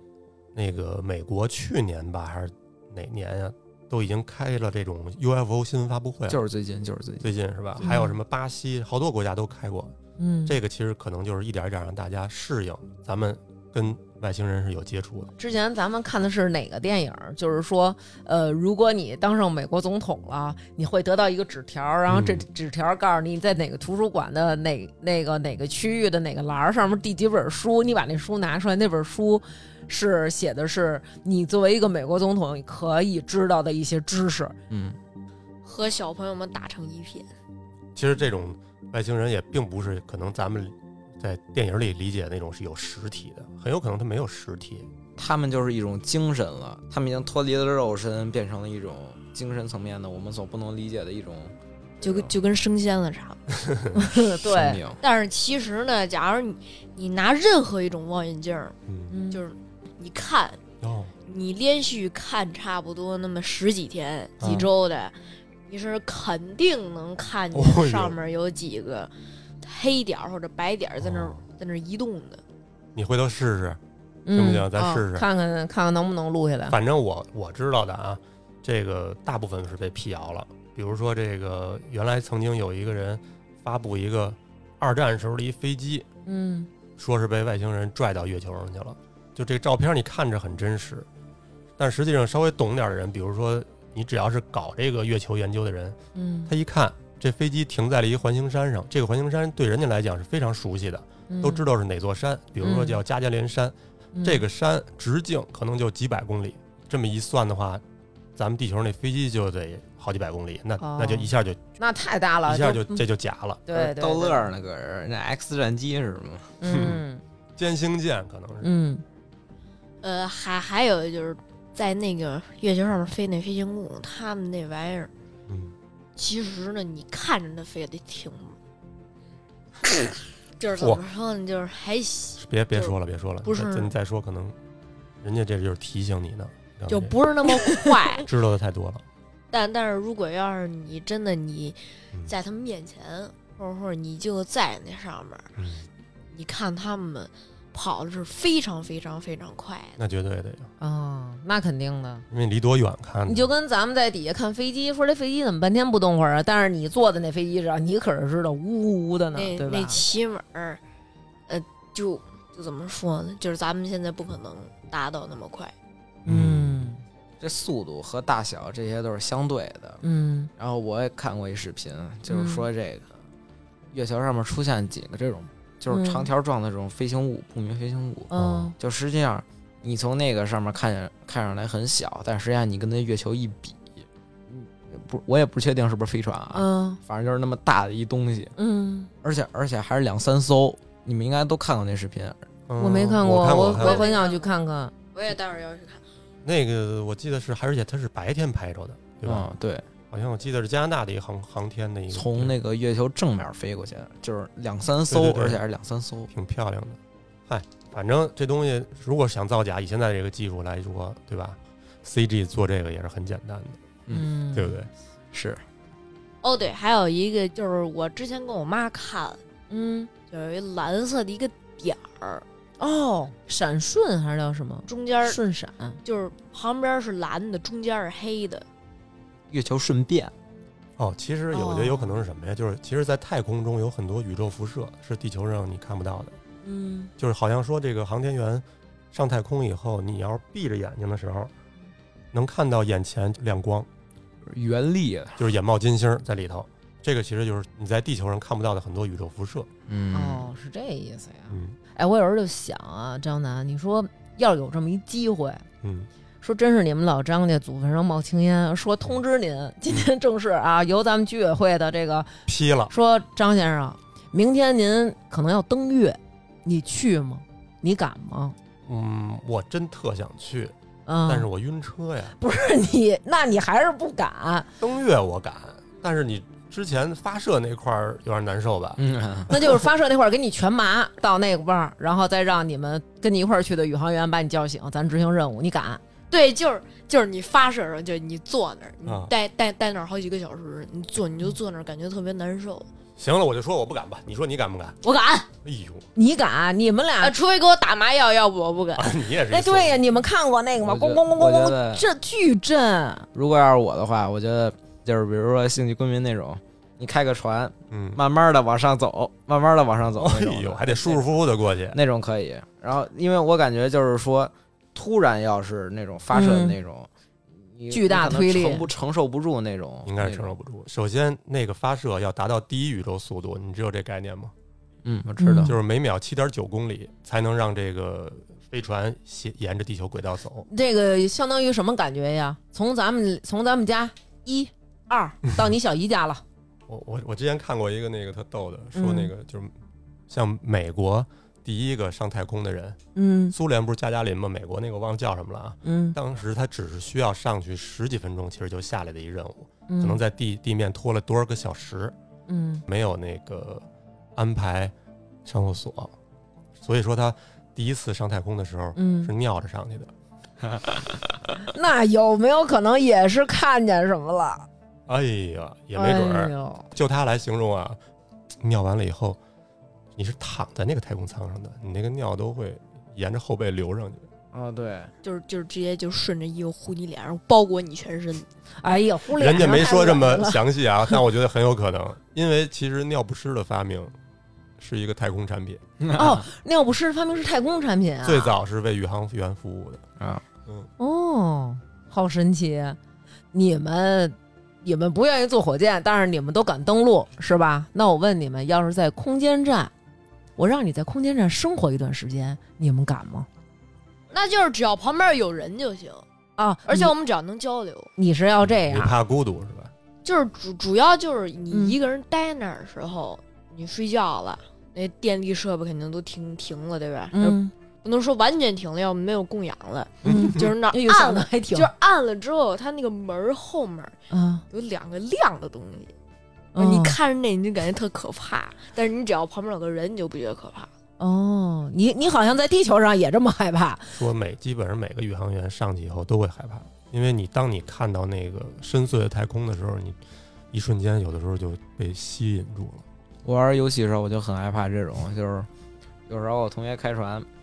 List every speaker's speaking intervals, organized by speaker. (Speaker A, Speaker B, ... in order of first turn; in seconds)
Speaker A: 0.5-6.4, 7.2-9.9, 10.5-15.3, 22.1-22.4, 38.0-44.9, 53.7-53.9, 58.9-59.1, 60.8-61.1, 64.4-64.7, 67.5-68.2, 71.0-71.4, 72.9-73.8, 74.3-75.3, 76.7-86.1, 87.0-91.1, 91.8-107.8, 108.3-111.6, 112.5-113.6, 116.6-117.0, 117.6-118.7, 125.5-125.7, 132.4-134.6, 135.2-137.2, 138.2-139.0, 145.6-145.8, 150.0-150.7, 152.3-153.5, 166.2-166.9, 178.3-178.7, 192.7-194.1, 196.4-199.5, 200.1-202.6, 205.1-205.6, 206.3-213.8, 214.5-214.9, 231.0-236.3, 237.2-241.5, 242.3-243.9, 245.4-249.7, 251.5-251.8, 255.8-256.1, 262.5-262.9, 268.9-270.7, 271.2-272.4, 274.8-279.0, 289.0-289.3, 293.2-295.0, 295.6-296.1, 298.9-300.0, 307.9-308.2, 310.1-312.0, 320.0-324.5, 325.6-330.7, 336.9-339.7, 340.3-343.0, 343.5-352.1, 352.9-354.9, 355.4-356.1, 356.8-360.1, 365.1-368.0, 368.6-369.4, 370.1-374.3, 379.4-384.1, 384.8-385.8, 388.2-390.0, 408.6-409.9, 420.2-420.6, 434.1-440.2, 440.7-443.0
Speaker B: 6.3-7.3, 34.7-35.0, 45.2-51.5, 54.4-55.0, 113.7-116.5, 167.4-170.0, 170.6-173.1, 173.9-188.5, 189.2-192.4, 199.2-199.8, 202.1-206.3, 215.3-215.6, 229.5-230.3, 244.4-245.4, 249.9-250.5, 279.0-279.5, 300.8-302.1, 303.3-311.3, 311.9-320.5, 325.0-325.8, 360.7-361.0, 374.5-375.1, 386.0-386.4, 443.4-445.7, 446.3-447.5
Speaker C: 7.8-8.1, 10.2-10.6, 15.4-34.5, 53.9-54.8, 59.1-59.4, 64.4-64.7, 74.2-76.8, 86.2-86.7, 96.1-96.5, 101.3-101.6, 102.6-103.0, 104.1-104.4, 110.8-113.0, 113.7-114.5, 116.6-117.2, 118.6-119.0, 150.8-152.2, 153.2-160.0, 166.2-167.0, 170.0-170.5, 172.3-172.7, 175.9-176.3, 178.3-178.7, 186.5-187.0, 188.6-189.1, 192.8-194.9, 214.1-214.8, 219.7-220.1, 222.8-226.0, 231.5-232.2, 236.6-237.1, 250.1-255.6, 256.4-262.3, 262.9-268.6, 271.1-271.5, 272.4-274.7, 279.5-286.0, 296.1-297.4, 299.5-303.3, 316.3-316.8, 317.9-318.9, 325.4-325.7, 330.7-336.4, 338.9-339.3, 343.1-343.5, 345.8-346.1, 349.9-350.2, 352.5-352.8, 358.9-359.3, 361.6-364.7, 365.9-366.8, 378.8-380.6, 386.1-388.5, 391.0-393.0, 393.5-399.9, 400.6-403.5, 406.6-407.1, 408.2-409.1, 411.7-412.0, 417.3-417.7, 420.2-421.9, 424.3-424.6, 426.7-427.2, 431.2-434.2
Speaker D: 35.6-37.3, 52.0-53.4, 55.0-58.8, 59.3-60.6, 61.2-65.2, 65.7-72.4, 74.7-75.0, 120.0-125.1, 126.2-128.6, 130.6-133.9, 136.9-138.3, 139.5-145.5, 146.3-150.0, 159.3-160.8, 161.5-165.7, 193.7-194.5, 195.1-196.0, 216.4-219.4, 220.3-222.4, 224.9-225.4, 226.0-228.7, 286.3-292.9, 295.0-295.5, 297.2-299.2, 375.2-378.5, 404.3-406.2, 406.9-408.1, 410.2-424.2, 424.7-426.1, 426.8-430.9